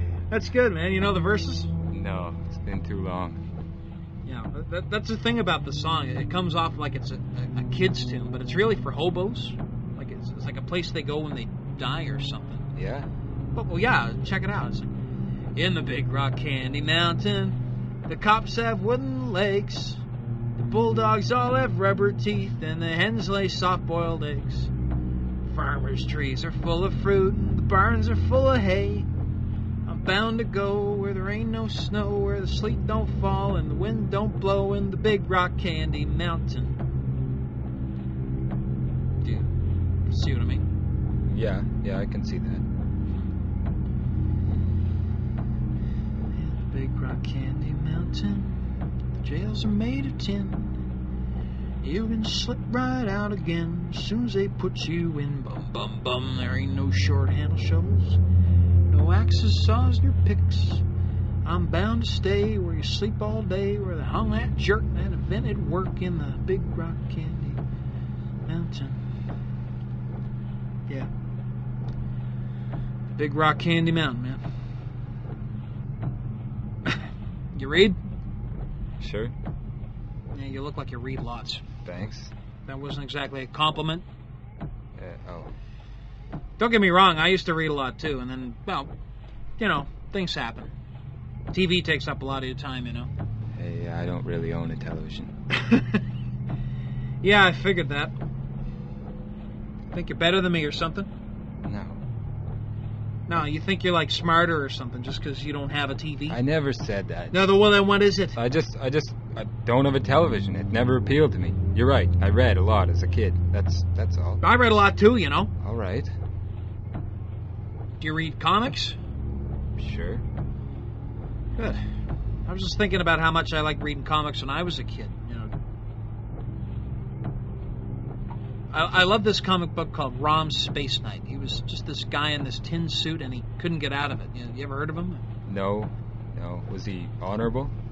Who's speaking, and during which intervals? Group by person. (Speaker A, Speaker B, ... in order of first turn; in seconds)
Speaker A: 0.3-1.7, 4.2-12.7, 13.5-14.9, 15.6-20.0, 20.6-24.7, 25.5-29.1, 29.9-36.8, 39.2-39.5, 40.1-40.6, 46.3-48.6, 49.2-50.7, 51.8-58.2, 58.9-60.8, 61.4-67.6, 68.5-69.0, 73.1-74.4, 77.5-78.0, 80.3-81.6, 82.7-84.0, 86.6-88.9, 89.6-90.7, 91.5-93.1, 95.5-96.0, 97.2-98.1, 99.9-101.1, 103.3-106.4, 107.3-108.4, 114.4-115.5, 118.0-119.0, 121.6-121.8, 122.5-125.5, 128.7-135.2
Speaker B: 1.9-3.4, 12.7-13.1, 41.3-42.6, 79.0-79.3, 81.8-82.3, 85.0-85.5, 93.5-95.3, 101.6-102.0, 106.3-107.5, 108.3-114.4, 115.6-116.1, 119.8-120.2, 135.4-137.7